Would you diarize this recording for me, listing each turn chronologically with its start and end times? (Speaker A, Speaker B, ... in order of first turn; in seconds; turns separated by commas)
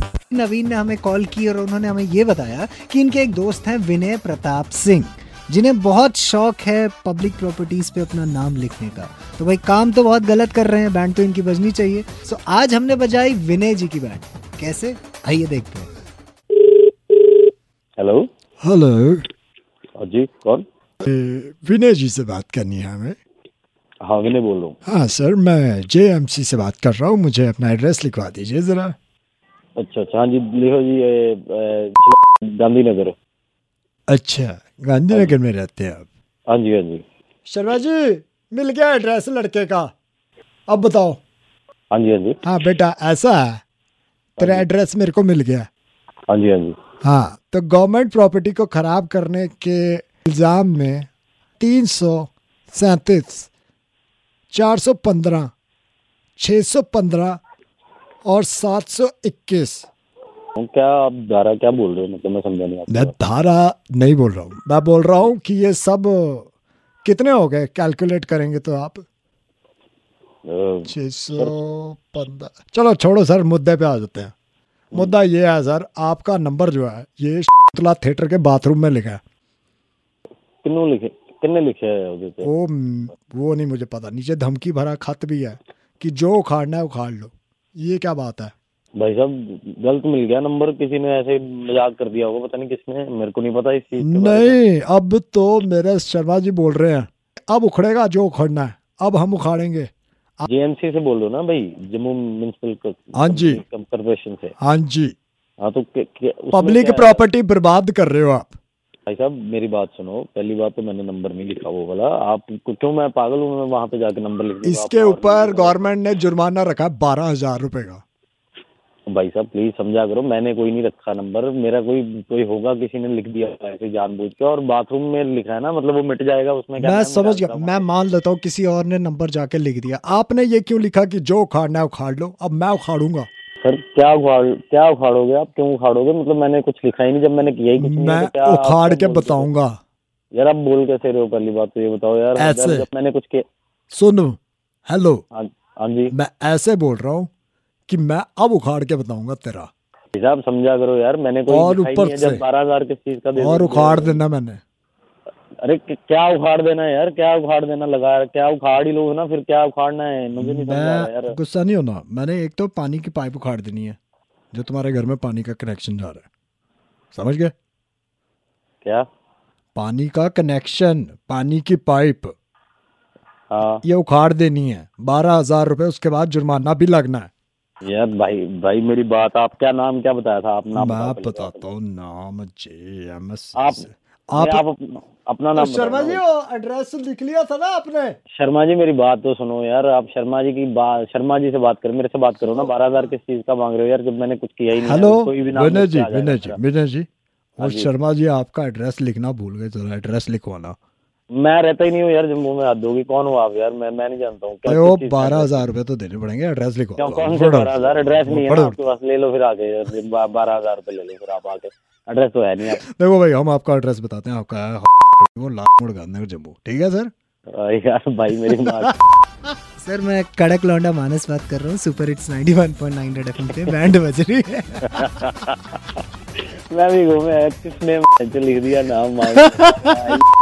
Speaker A: 0.3-13.9, Speaker B: 8.5-9.5, Speaker B: 11.9-15.9, Speaker A: 14.6-15.6, Speaker C: 18.0-18.3, Speaker B: 18.6-19.2, Speaker C: 20.0-20.6, Speaker B: 21.0-23.2, Speaker C: 24.0-24.8, Speaker B: 24.9-28.9, Speaker C: 29.8-33.1, Speaker B: 34.1-36.1, Speaker C: 36.5-37.0, Speaker B: 37.5-39.9, Speaker B: 40.7-41.2, Speaker C: 41.9-42.4, Speaker B: 42.4-43.5, Speaker B: 44.4-45.6, Speaker C: 44.4-44.6, Speaker C: 46.3-46.7, Speaker B: 47.0-51.1, Speaker B: 51.6-53.5, Speaker B: 54.5-55.5, Speaker B: 56.4-57.4, Speaker B: 58.2-59.9, Speaker C: 60.6-63.1, Speaker B: 62.9-66.5, Speaker B: 67.0-69.0, Speaker C: 70.5-71.5, Speaker B: 70.8-74.3, Speaker B: 74.9-79.2, Speaker C: 80.6-82.5, Speaker B: 82.4-88.5, Speaker C: 89.0-94.6, Speaker B: 94.0-99.9, Speaker C: 100.4-104.5, Speaker B: 103.2-103.6, Speaker B: 104.6-105.1, Speaker C: 105.6-107.2, Speaker B: 106.5-108.5, Speaker C: 109.1-115.9, Speaker B: 114.6-118.0, Speaker C: 119.1-127.9, Speaker B: 126.8-133.3, Speaker C: 133.6-139.5, Speaker B: 137.8-139.8, Speaker C: 140.3-143.4, Speaker B: 142.3-142.8, Speaker B: 143.9-145.2, Speaker C: 145.3-146.1, Speaker B: 146.1-147.3, Speaker B: 147.9-149.7, Speaker C: 150.1-154.2, Speaker B: 151.5-152.4, Speaker B: 153.4-154.6, Speaker C: 155.6-161.3, Speaker B: 160.4-164.0, Speaker B: 164.5-166.2, Speaker B: 167.1-167.5, Speaker B: 169.7-172.3, Speaker C: 173.5-173.8, Speaker B: 173.8-177.3, Speaker C: 177.8-181.6, Speaker B: 180.7-184.6, Speaker C: 183.6-186.2, Speaker B: 185.5-188.2, Speaker C: 188.3-196.6, Speaker B: 194.8-197.1, Speaker B: 197.6-200.8, Speaker C: 197.6-197.9, Speaker C: 201.3-205.6, Speaker B: 204.7-208.8, Speaker C: 207.0-212.8, Speaker B: 212.7-217.1, Speaker C: 217.5-219.0, Speaker B: 218.6-218.9, Speaker A: 219.8-224.0, Speaker B: 222.8-225.4, Speaker C: 224.8-230.3, Speaker B: 229.3-230.1